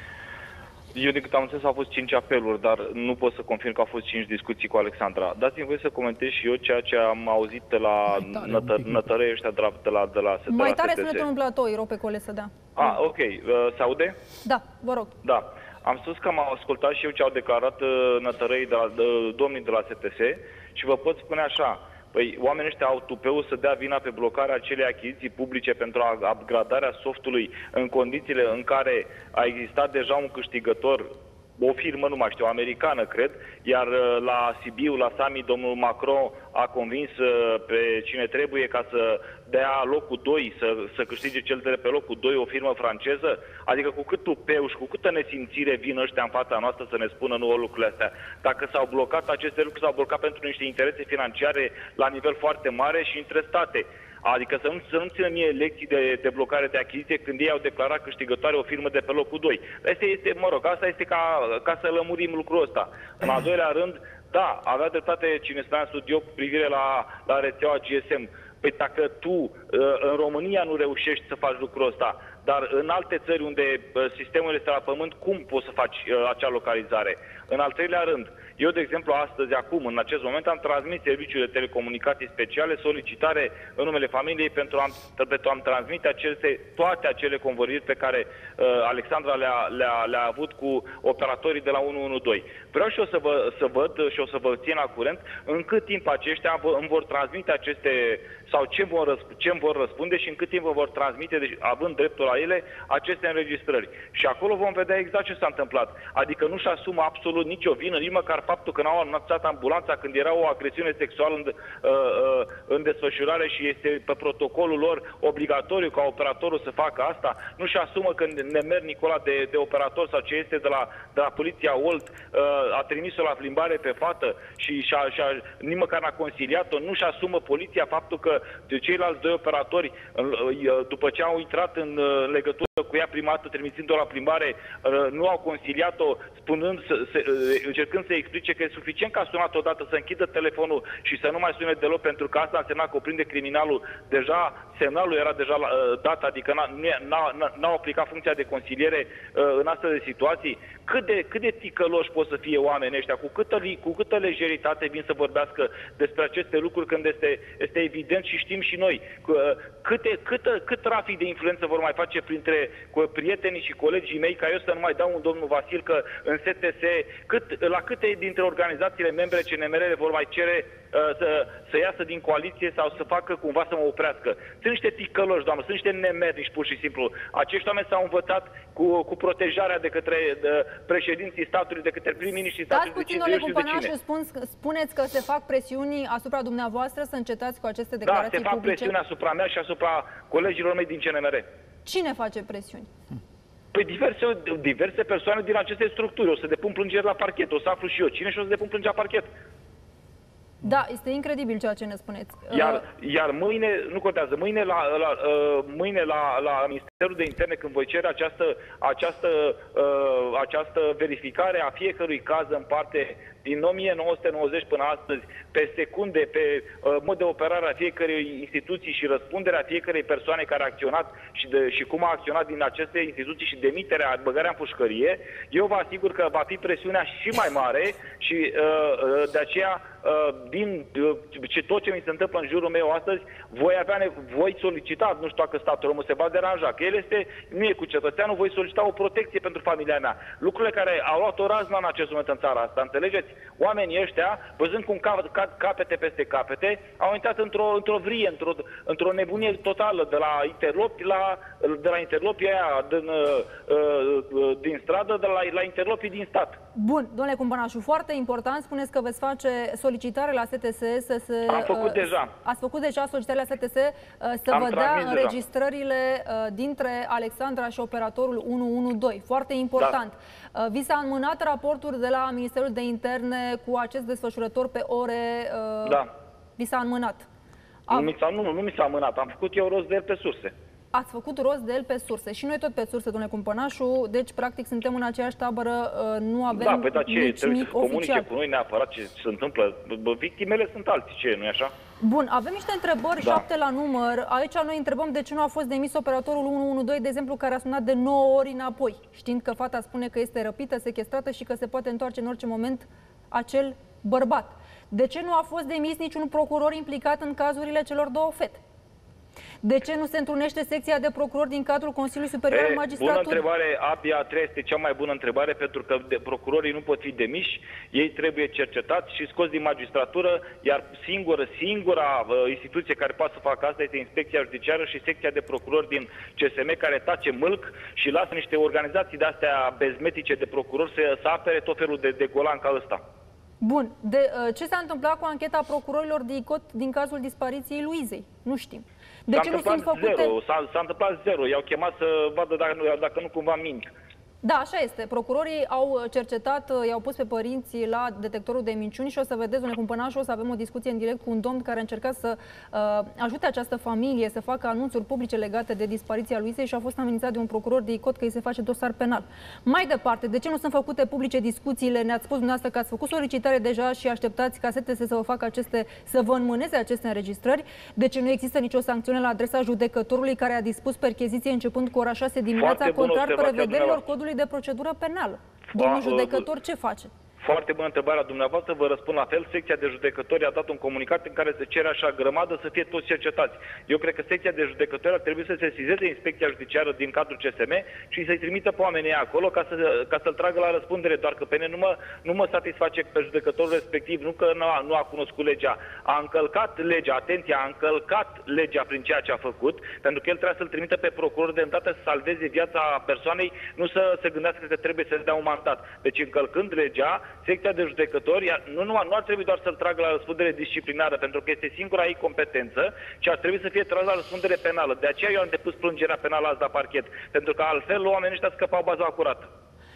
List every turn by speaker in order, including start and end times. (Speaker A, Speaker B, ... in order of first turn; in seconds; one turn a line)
Speaker A: 0.9-11.2
Speaker B: 10.5-12.7
Speaker A: 12.8-14.2
Speaker B: 14.4-15.1
Speaker A: 15.2-183.9
Speaker B: 182.7-188.9
Speaker A: 188.0-191.4
Speaker B: 191.8-192.9
Speaker A: 193.7-199.3
Speaker B: 200.6-202.8
Speaker A: 202.5-256.6
Speaker B: 256.7-276.0
Speaker A: 261.5-262.3
Speaker A: 264.5-265.4
Speaker B: 276.6-277.3
Speaker A: 277.9-280.5
Speaker B: 280.9-288.3
Speaker A: 286.5-291.7
Speaker B: 292.0-308.6
Speaker B: 309.6-313.4
Speaker A: 312.5-333.0
Speaker B: 333.6-340.3
Speaker A: 339.3-343.9
Speaker B: 344.4-377.1
Speaker A: 372.5-374.0
Speaker A: 375.7-376.5
Speaker A: 377.4-419.5